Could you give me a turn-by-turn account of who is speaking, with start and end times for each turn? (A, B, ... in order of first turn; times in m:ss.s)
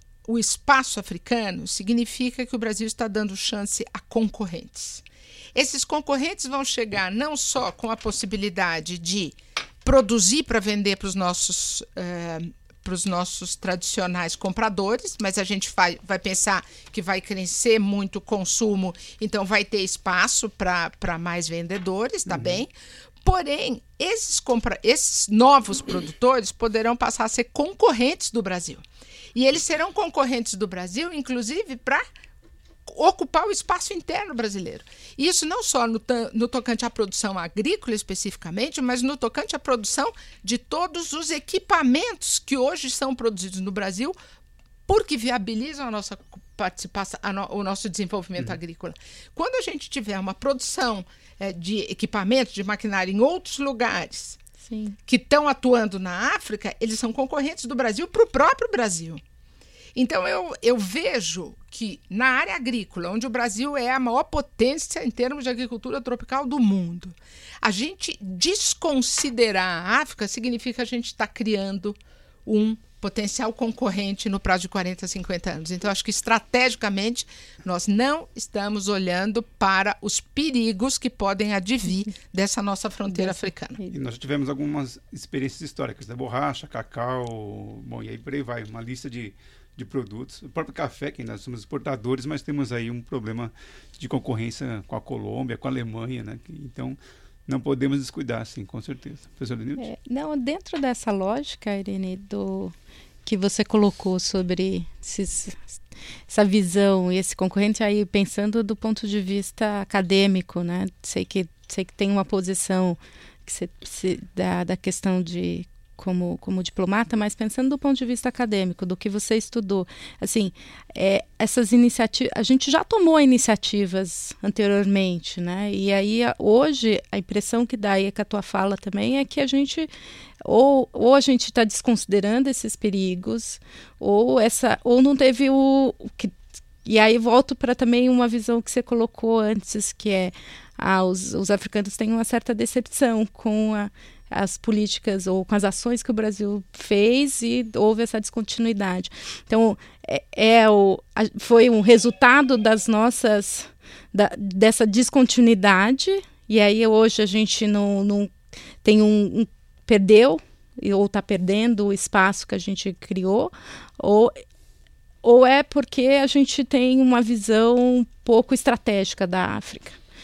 0:00.2-0:22.7 A
0:22.3-0:22.6 B
0:23.2-0:28.8 A
0:29.4-0:32.0 A
0:32.9-0:44.2 A
0:44.9-0:54.4 A
0:54.6-0:55.0 C
0:55.1-0:59.2 A
1:00.0-1:23.8 A
1:23.9-1:39.9 B
1:39.8-1:42.7 C
1:43.2-1:45.6 C
1:46.3-2:09.9 C
2:10.4-2:44.4 C
2:45.2-2:50.0 C